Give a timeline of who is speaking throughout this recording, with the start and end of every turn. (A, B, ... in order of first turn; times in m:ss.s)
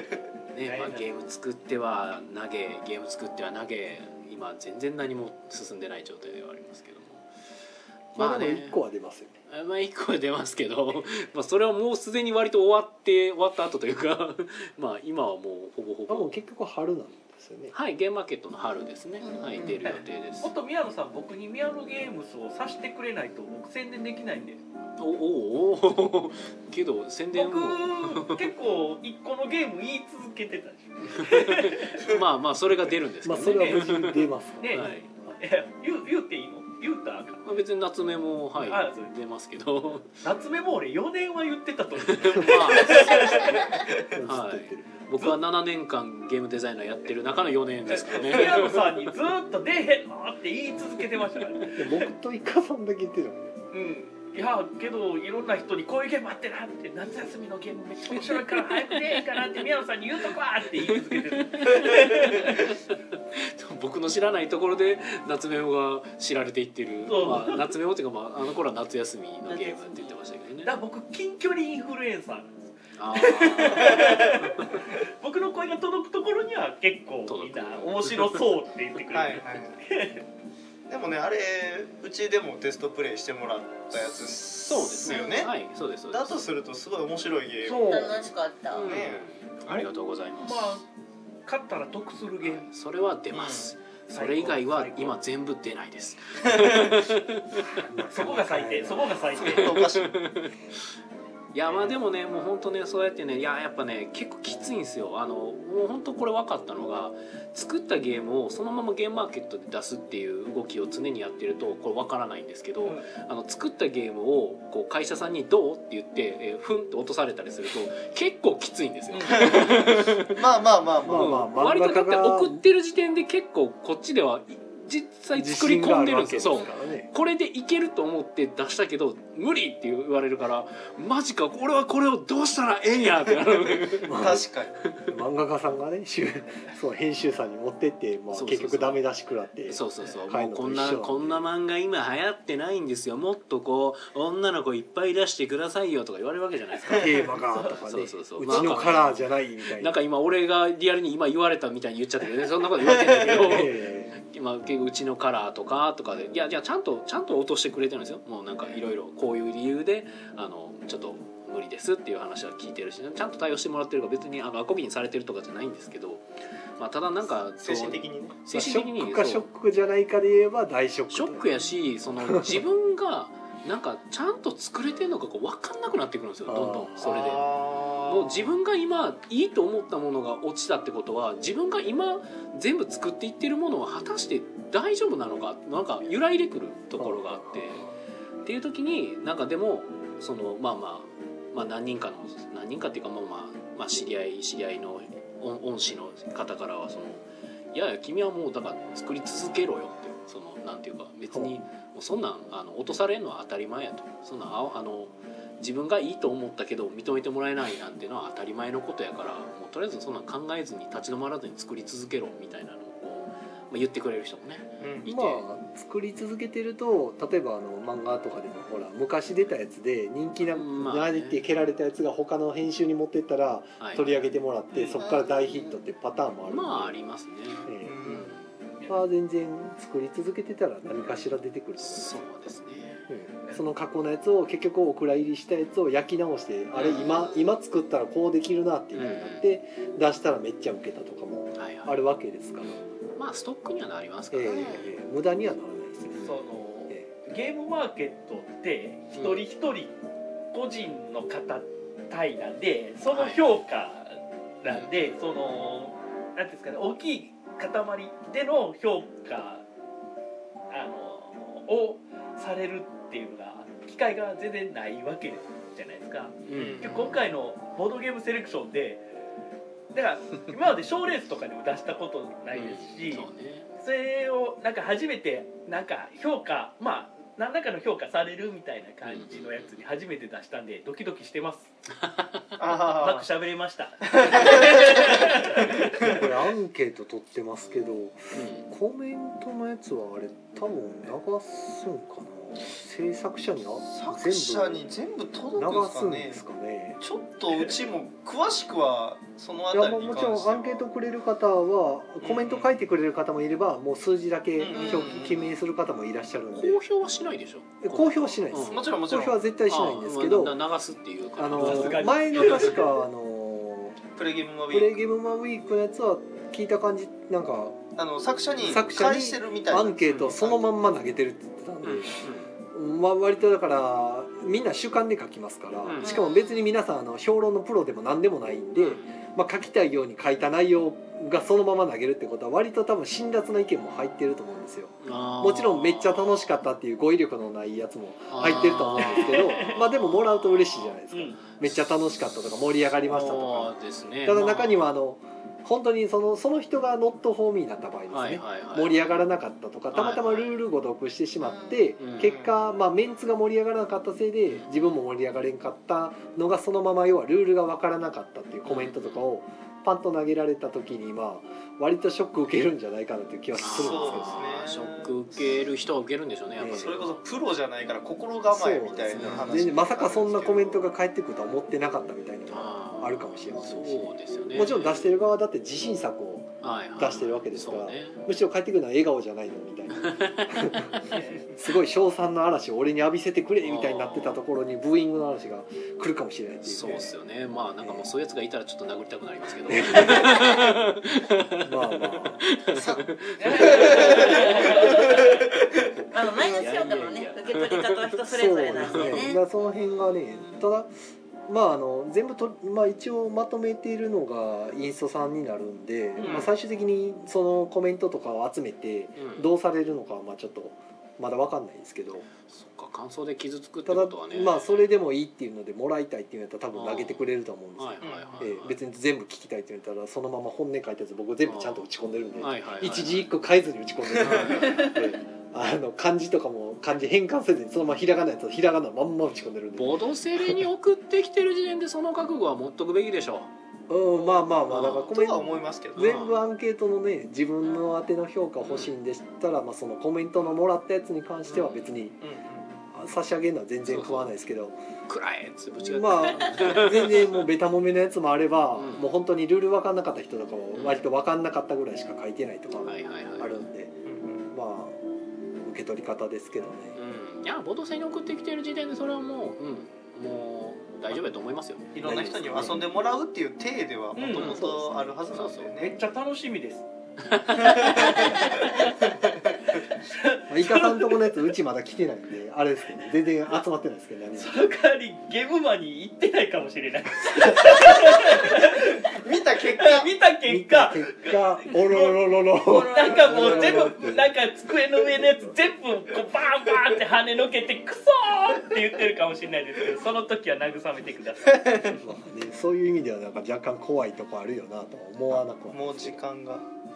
0:00.5-0:07.3 A
0:00.7-0:01.1 B
0:08.2-0:08.8 A
0:08.2-0:09.4 C
0:09.5-0:16.4 A
0:16.1-0:17.8 C
0:17.7-0:20.5 A
0:19.2-0:19.7 D
0:19.8-0:24.6 B
0:25.0-0:28.5 A
0:27.4-0:32.0 B
0:31.1-0:35.1 A
0:33.2-0:35.4 C
0:33.4-0:34.1 B
0:34.6-0:37.4 B
0:37.4-0:40.1 A
0:38.6-0:39.1 B
0:40.2-0:43.9 B
0:42.0-0:49.0 A
0:44.1-0:45.0 C
0:47.9-0:51.9 B
0:51.8-0:53.6 C
0:53.7-1:02.7 B
1:00.9-1:10.7 A
1:07.1-1:07.7 B
1:09.5-1:10.1 D
1:10.6-1:12.5 B
1:13.0-1:14.8 A
1:13.1-1:20.2 B
1:13.9-1:14.5 E
1:17.3-1:18.4 A
1:19.1-1:19.8 E
1:20.9-1:25.5 E
1:24.6-1:26.4 A
1:25.0-1:25.4 D
1:26.1-1:28.0 E
1:27.6-1:28.2 B
1:27.8-1:29.0 D
1:28.7-1:30.8 A
1:28.8-1:29.9 E
1:30.4-1:30.9 B
1:31.5-1:32.6 B
1:32.4-1:37.8 A
1:33.3-1:33.7 E
1:34.1-1:35.2 B
1:36.5-1:36.8 E
1:37.7-1:39.3 C
1:38.1-1:39.8 B
1:39.4-1:40.6 A
1:39.4-1:40.2 E
1:41.5-2:00.4 A
1:59.1-1:59.5 B
1:59.3-2:01.4 E
2:01.0-2:02.6 C
2:01.1-2:15.1 A
2:05.4-2:07.1 C
2:14.1-2:14.5 C
2:14.2-2:14.7 E
2:15.0-2:21.5 C
2:18.3-2:19.0 A
2:19.7-2:46.2 A
2:27.0-2:30.0 C
2:33.2-2:34.2 C
2:46.8-2:49.5 A
2:47.6-2:48.4 E
2:48.5-2:51.5 C
2:51.1-3:07.9 A
2:52.2-2:52.6 C
2:56.5-2:57.0 C
2:57.0-2:58.5 E
3:07.0-3:07.8 C
3:08.4-3:35.4 A
3:34.8-3:35.1 E
3:35.0-3:47.0 C
3:40.4-3:41.4 A
3:43.8-3:44.3 A
3:44.9-3:45.7 D
3:46.5-3:48.5 A
3:47.7-3:48.2 C
3:47.8-3:48.3 E
3:48.9-3:52.2 C
3:51.8-3:53.0 A
3:53.1-4:02.8 C
3:56.8-3:57.3 A
3:58.9-3:59.5 A
4:01.6-4:02.0 A
4:03.2-4:04.9 A
4:04.3-4:07.1 C
4:04.5-4:04.8 D
4:06.2-4:09.9 B
4:09.1-4:09.4 A
4:10.5-4:19.6 B
4:13.1-4:13.4 A
4:14.7-4:14.9 A
4:20.7-4:29.0 B
4:26.5-4:27.3 A
4:26.5-4:27.0 E
4:29.9-4:33.3 B
4:32.5-4:33.7 A
4:33.8-4:41.7 B
4:39.0-4:39.8 A
4:42.0-4:42.4 A
4:42.6-4:43.3 E
4:42.6-4:45.8 B
4:44.1-4:45.2 E
4:46.0-4:54.8 C
4:48.3-4:48.7 A
4:53.9-4:56.4 E
4:55.6-4:57.0 C
4:57.0-5:00.8 E
4:59.7-5:06.8 C
5:02.2-5:02.7 E
5:04.6-5:05.5 E
5:04.7-5:05.1 D
5:06.5-5:09.0 A
5:07.8-5:10.6 C
5:08.7-5:09.4 E
5:09.7-5:12.8 A
5:11.4-5:14.0 C
5:11.6-5:12.9 B
5:14.2-5:15.0 E
5:14.7-5:17.8 C
5:18.0-5:20.7 E
5:18.6-6:04.5 C
5:20.1-5:20.3 A
5:21.8-5:22.5 A
5:25.8-5:26.2 A
5:26.0-5:26.7 D
5:28.8-5:29.2 A
5:35.0-5:36.6 A
5:38.3-5:41.0 A
5:39.3-5:39.8 B
5:41.1-5:41.4 B
5:43.0-5:44.9 A
5:48.1-5:49.1 A
5:49.9-5:50.6 A
5:51.4-5:51.8 D
5:52.0-5:52.4 A
5:52.2-5:52.5 E
5:58.6-5:59.3 A
6:03.6-6:07.2 A
6:03.8-6:05.1 E
6:06.6-6:07.0 C
6:06.8-6:10.8 E
6:08.5-6:27.0 C
6:09.2-6:10.6 A
6:12.5-6:15.2 A
6:16.6-6:18.2 A
6:20.0-6:21.0 A
6:21.2-6:21.4 B
6:23.6-6:24.4 A
6:26.6-6:35.3 A
6:27.8-6:28.1 C
6:29.7-6:30.7 C
6:31.6-6:32.5 C
6:32.7-6:35.8 E
6:33.4-6:35.5 B
6:36.1-6:39.7 D
6:36.3-6:39.3 A
6:38.3-6:40.9 C
6:41.5-6:52.3 C
6:46.2-6:46.4 B
6:46.2-6:46.5 A
6:49.2-6:49.5 A
6:52.5-6:54.8 A
6:53.9-7:10.0 C
6:56.7-6:57.3 A
6:57.8-6:58.8 A
6:58.0-6:58.4 E
7:01.4-7:01.9 A
7:02.4-7:03.3 A
7:04.2-7:04.9 A
7:09.8-7:13.5 A
7:13.9-7:22.2 C
7:14.7-7:15.2 A
7:15.1-7:16.1 E
7:16.0-7:16.3 A
7:18.6-7:18.9 A
7:21.5-7:21.9 A
7:22.2-7:22.7 E
7:22.9-7:24.8 C
7:23.9-7:24.3 A
7:25.1-7:27.4 A
7:25.8-7:35.0 C
7:28.8-7:29.1 A
7:30.7-7:31.0 A
7:32.8-7:33.6 A
7:34.1-7:34.5 E
7:35.6-7:37.0 C
7:37.0-7:42.8 A
7:41.9-7:46.0 E
7:42.0-7:42.8 C
7:44.2-7:44.6 B
7:44.4-7:44.7 A
7:44.4-7:45.2 C
7:45.3-7:45.7 A
7:45.8-7:46.8 B
7:47.3-7:48.3 A
7:47.6-7:48.5 E
7:48.0-7:48.7 B
7:49.2-7:49.5 E
7:50.1-7:51.5 B
7:50.5-7:54.6 C
7:54.4-8:12.0 B
7:57.6-8:00.1 E
8:00.5-8:04.3 C
8:03.4-8:03.6 E
8:12.0-8:16.2 C
8:15.7-8:16.7 E